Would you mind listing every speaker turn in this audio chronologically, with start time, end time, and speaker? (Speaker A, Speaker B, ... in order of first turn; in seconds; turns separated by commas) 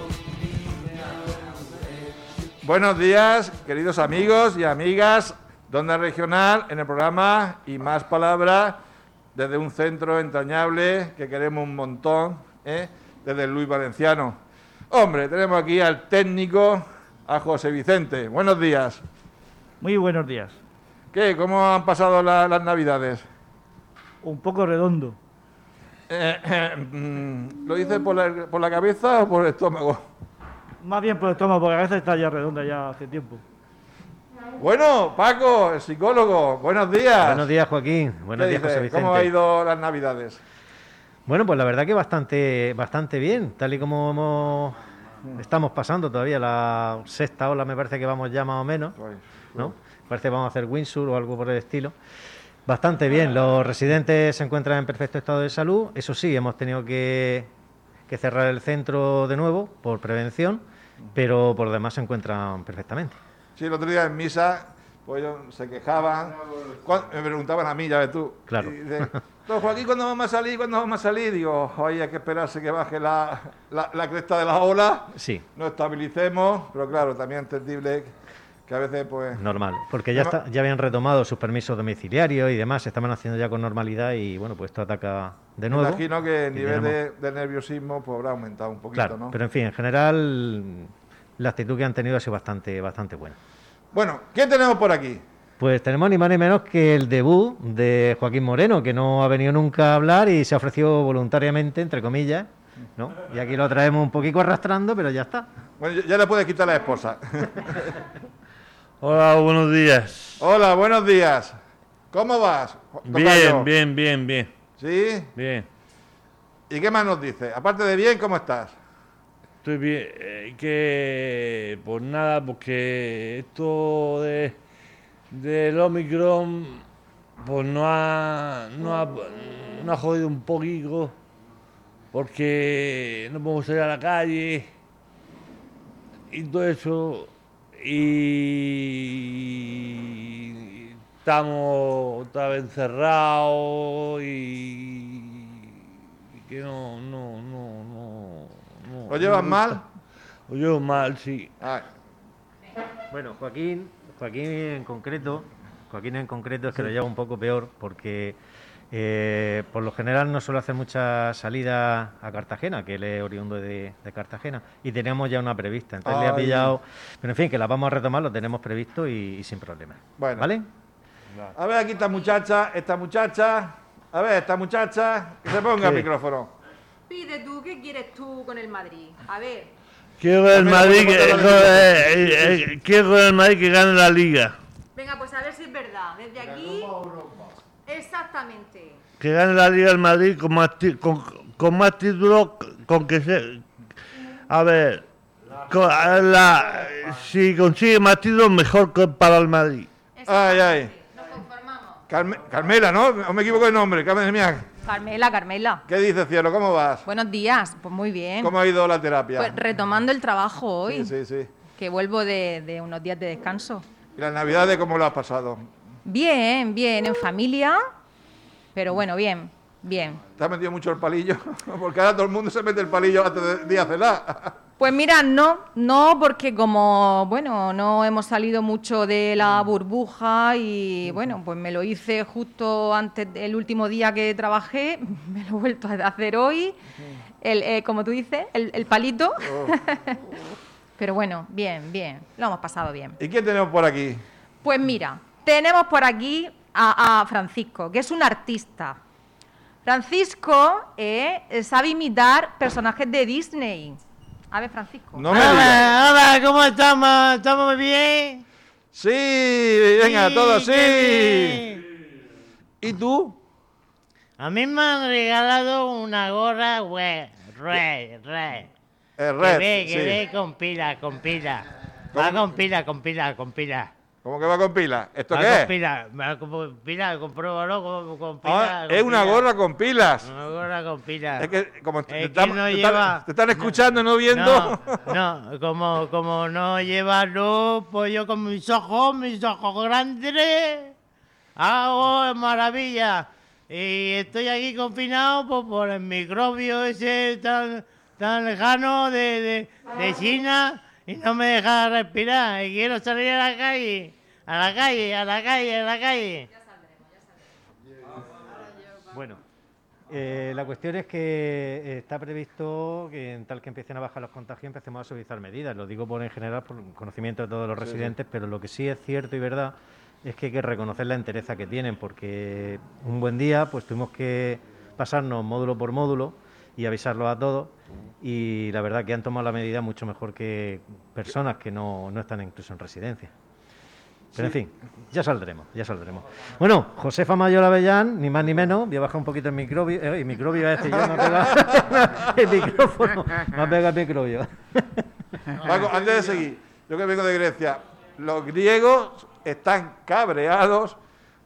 Speaker A: 2.6-8.8, Speaker A: 9.3-14.4, Speaker A: 14.9-19.0, Speaker B: 19.8-20.6, Speaker A: 21.1-23.2, Speaker B: 24.2-25.2, Speaker A: 26.1-30.0, Speaker B: 30.8-33.4, Speaker A: 34.6-37.4, Speaker C: 37.2-39.3, Speaker A: 38.3-40.4, Speaker C: 41.3-44.8, Speaker C: 45.4-49.0, Speaker A: 49.0-49.7, Speaker C: 49.6-51.9, Speaker C: 52.6-57.5, Speaker C: 58.1-60.6, Speaker C: 61.1-63.1, Speaker A: 63.5-78.1, Speaker C: 68.5-69.2, Speaker C: 75.1-75.4, Speaker A: 78.7-79.4, Speaker C: 79.3-87.0, Speaker A: 80.1-80.4, Speaker A: 85.7-89.4, Speaker C: 88.9-93.3, Speaker A: 93.9-95.2, Speaker C: 95.6-105.5, Speaker A: 105.8-107.7, Speaker D: 109.0-110.4, Speaker A: 110.4-111.5, Speaker A: 112.1-113.7, Speaker D: 113.0-114.5, Speaker A: 114.8-115.3, Speaker D: 115.4-115.7, Speaker A: 116.7-118.7, Speaker D: 119.6-124.6, Speaker D: 125.3-126.8, Speaker D: 127.4-131.1, Speaker D: 132.1-134.7, Speaker D: 136.3-145.7, Speaker D: 146.4-149.8, Speaker A: 149.1-149.8, Speaker D: 150.5-151.5, Speaker C: 153.1-158.3, Speaker C: 158.9-170.7, Speaker A: 166.0-166.8, Speaker A: 170.2-170.5, Speaker A: 171.5-176.5, Speaker E: 177.1-179.7, Speaker D: 180.2-184.6, Speaker A: 180.6-182.6, Speaker E: 184.9-187.1, Speaker E: 187.9-189.0, Speaker D: 189.2-193.6, Speaker D: 194.5-195.1, Speaker D: 195.6-199.9, Speaker E: 200.2-201.9, Speaker A: 200.2-200.9, Speaker A: 202.1-204.7, Speaker E: 204.8-205.8, Speaker A: 205.9-207.1, Speaker E: 207.0-208.5, Speaker A: 208.4-209.6, Speaker E: 209.4-211.1, Speaker A: 210.8-211.5, Speaker E: 211.8-213.8, Speaker A: 214.2-215.7, Speaker E: 216.0-217.8, Speaker E: 218.7-220.2, Speaker A: 220.4-224.6, Speaker E: 224.8-236.8, Speaker E: 237.4-240.2, Speaker A: 239.4-239.7, Speaker E: 241.0-243.2, Speaker A: 243.2-244.2, Speaker E: 244.6-249.0, Speaker E: 249.8-254.0, Speaker E: 254.5-255.9, Speaker A: 255.1-255.8, Speaker F: 255.3-258.4, Speaker A: 258.9-261.7, Speaker F: 260.0-261.8, Speaker A: 262.8-263.4, Speaker F: 264.4-268.7, Speaker A: 269.2-270.2, Speaker F: 269.4-273.9, Speaker A: 272.1-272.5, Speaker A: 274.2-275.7, Speaker F: 275.3-279.5, Speaker A: 278.4-280.3, Speaker F: 280.2-281.5, Speaker A: 281.4-285.1, Speaker F: 282.1-290.9, Speaker F: 291.6-306.5, Speaker C: 309.1-309.4, Speaker C: 310.1-333.3, Speaker A: 317.8-318.1, Speaker C: 334.3-345.0, Speaker A: 345.6-351.0